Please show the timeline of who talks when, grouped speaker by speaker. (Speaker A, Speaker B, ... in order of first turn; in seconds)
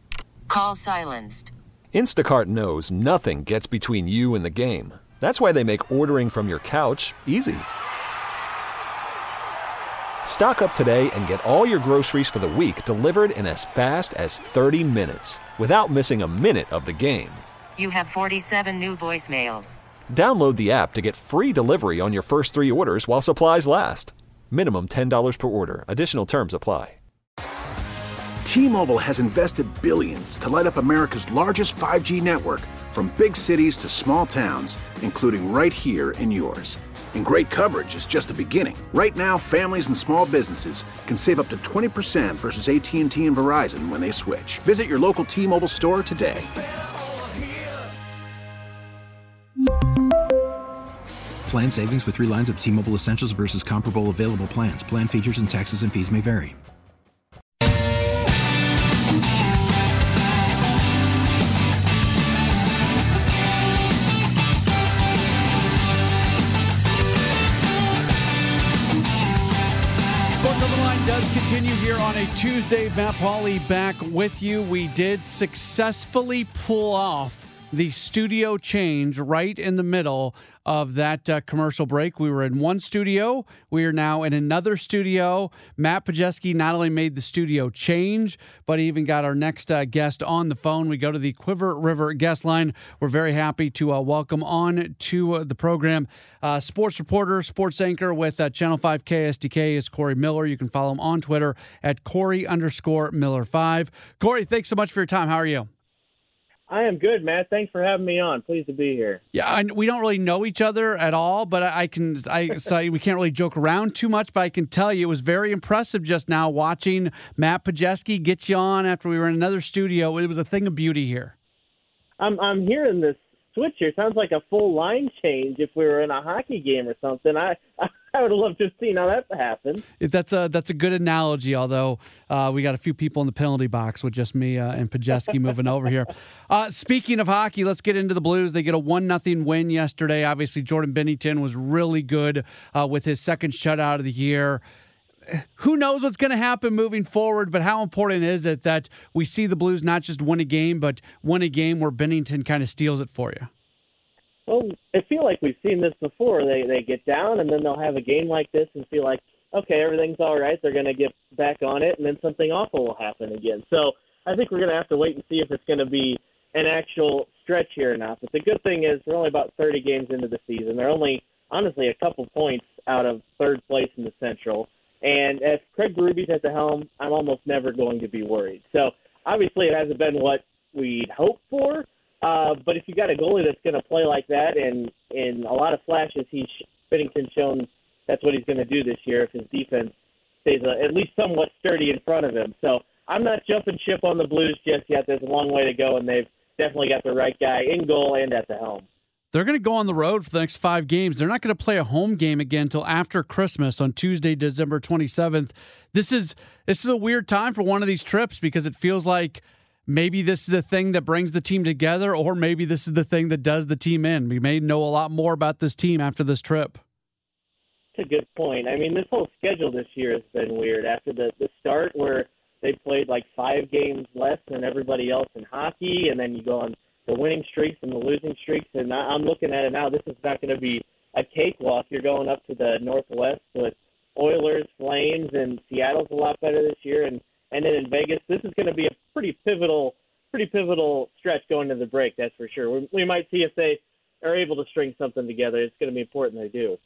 Speaker A: 0.5-1.5, 17.8-19.8
Speaker B: 1.9-7.7, 10.2-17.4, 20.1-27.0
Speaker C: 28.4-46.5
Speaker D: 51.5-56.5
Speaker E: 70.3-105.7, 109.3-121.3, 130.0-144.6, 145.3-153.5, 199.3-216.8
Speaker F: 106.7-109.2, 122.2-129.8, 154.5-189.9, 190.4-198.8, 217.9-246.8